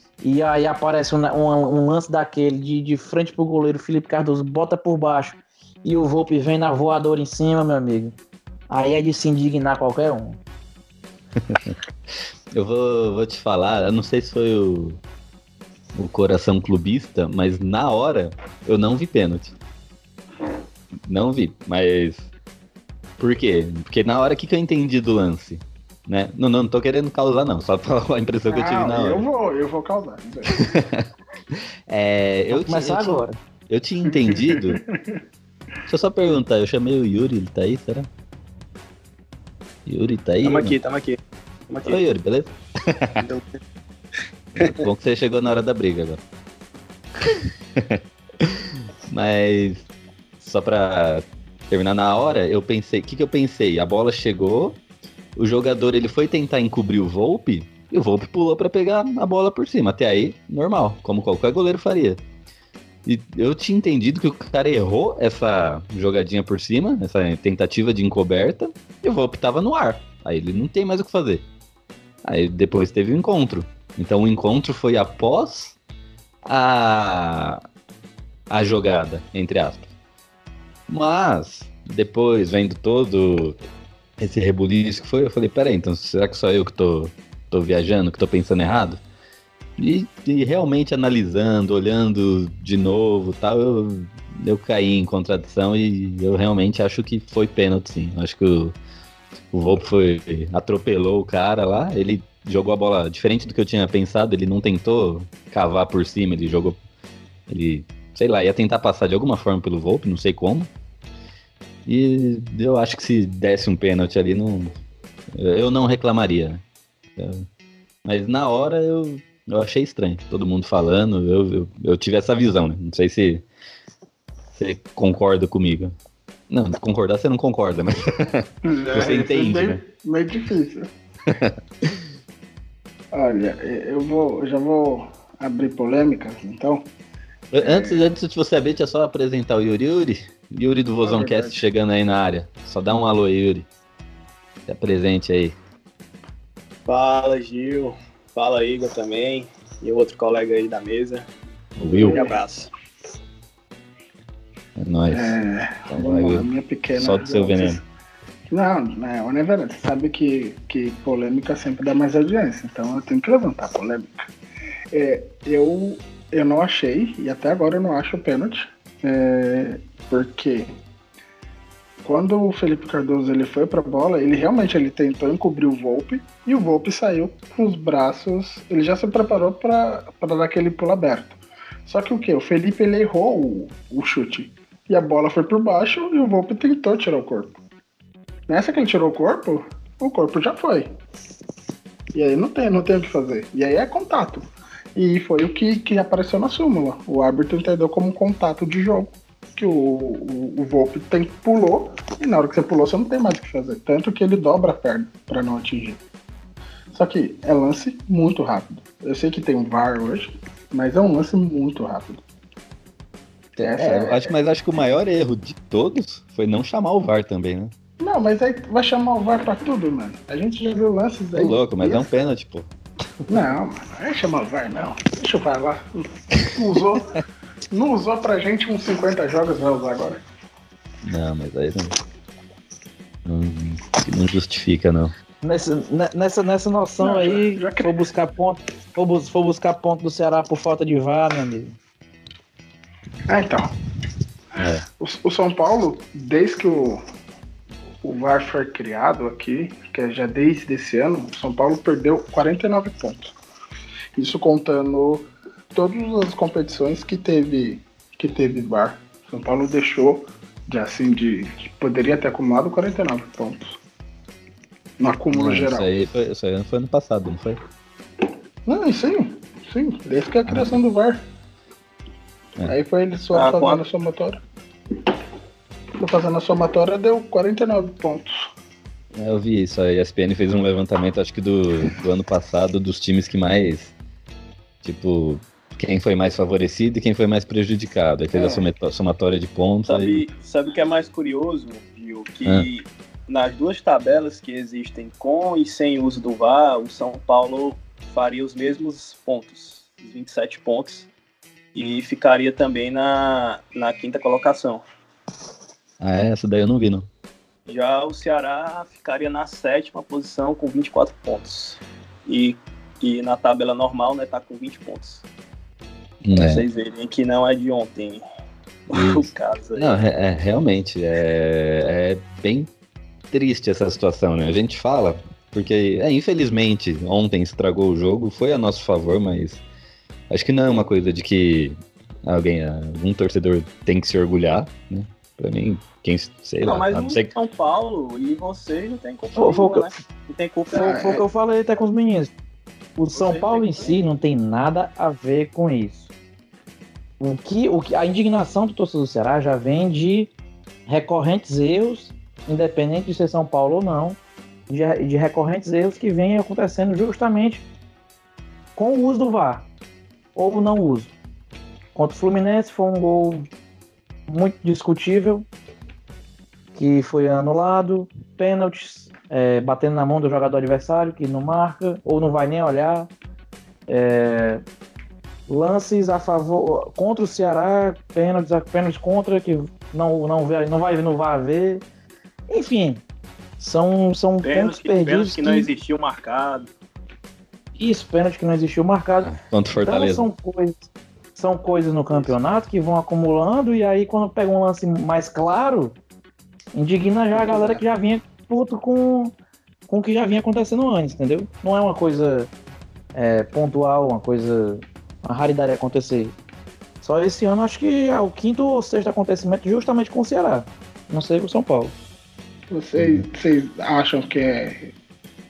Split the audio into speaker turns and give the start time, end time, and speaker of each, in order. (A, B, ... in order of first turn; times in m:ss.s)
0:00.2-0:08.2 A
0:08.7-0:10.4 A
0:11.4-0:11.8 B
0:12.5-0:15.0 B
0:16.0-0:19.6 B
0:21.1-0:22.3 B
0:23.2-0:29.3 B
0:28.5-0:30.7 C
0:30.6-0:34.8 B
0:32.5-0:33.4 A
0:34.1-0:35.2 C
0:35.9-0:38.1 B
0:39.9-0:40.8 B
0:40.4-0:41.2 D
0:41.7-0:42.0 D
0:41.9-0:43.2 B
0:43.2-0:43.6 D
0:44.6-0:46.2 B
0:47.2-0:49.9 B
0:50.4-0:54.8 B
0:55.4-1:02.2 B
1:03.0-1:11.5 B
1:12.2-1:15.8 B
1:16.5-1:17.6 B
1:18.5-1:19.9 B
1:20.9-1:23.6 B
1:24.2-1:29.0 B
1:29.8-1:38.8 B
1:39.5-1:46.8 B
1:47.5-1:50.7 B
1:51.9-1:54.7 B
1:55.4-1:56.6 B
1:57.2-1:57.5 B
1:58.0-2:03.4 B
2:04.5-2:05.9 B
2:06.5-2:09.8 B
2:08.6-2:10.9 C
2:11.3-2:11.9 B
2:13.1-2:16.9 C
2:17.5-2:23.7 B
2:17.6-2:18.0 C
2:21.0-2:21.6 C
2:24.7-2:25.6 B
2:26.9-2:31.3 D
2:31.8-2:32.2 B
2:31.9-2:32.7 D
2:32.0-2:32.4 C
2:34.8-2:35.4 B
2:35.1-2:37.8 C
2:35.9-2:37.8 B
2:38.5-2:44.3 C
2:44.9-2:50.8 C
2:52.0-3:07.6 C
3:08.5-3:10.9 C
3:12.1-3:26.0 C
3:26.9-3:32.2 C
3:33.6-3:37.7 B
3:33.6-3:34.3 C
3:38.0-3:42.0 C
3:41.4-3:42.7 B
3:43.3-3:50.2 C
3:51.0-3:52.0 B
3:53.2-3:55.1 B
3:55.4-4:01.8 A
3:57.0-3:58.0 C
4:03.3-4:03.7 C
4:04.6-4:04.8 B
4:05.0-4:07.0 C
4:08.0-4:13.3 C
4:14.2-4:23.8 C
4:25.0-4:25.9 C
4:25.3-4:27.6 B
4:28.7-4:31.3 C
4:30.5-4:30.8 B
4:32.6-4:34.4 C
4:33.3-4:33.8 D
4:36.0-4:38.3 C
4:39.2-4:43.9 B
4:44.8-4:50.2 B
4:48.4-4:48.6 D
4:49.9-5:01.1 D
5:01.8-5:04.8 D
5:06.0-5:07.1 B
5:07.7-5:15.2 D
5:16.2-5:16.6 B
5:16.3-5:18.2 D
5:18.9-5:20.0 D
5:18.9-5:22.7 B
5:23.3-5:29.6 B
5:30.3-5:37.3 B
5:36.6-5:41.0 D
5:39.4-5:39.9 A
5:40.7-5:42.3 A
5:40.8-5:41.2 C
5:43.0-5:46.1 A
5:43.1-5:44.0 D
5:47.2-5:50.3 A
5:50.9-5:57.6 A
5:58.8-5:59.7 A
6:00.4-6:01.1 A
6:02.0-6:03.5 A
6:04.3-6:05.5 A
6:06.8-6:13.1 A
6:13.9-6:14.6 A
6:15.5-6:21.8 A
6:22.5-6:23.0 A
6:23.6-6:25.7 A
6:24.4-6:26.7 D
6:27.8-6:30.8 A
6:29.2-6:30.3 B
6:31.4-6:36.0 A
6:36.8-6:39.4 A
6:37.4-6:37.8 D
6:39.9-6:42.5 A
6:43.1-6:46.4 A
6:47.0-6:52.0 A
6:52.7-6:54.9 C
6:53.0-6:53.3 B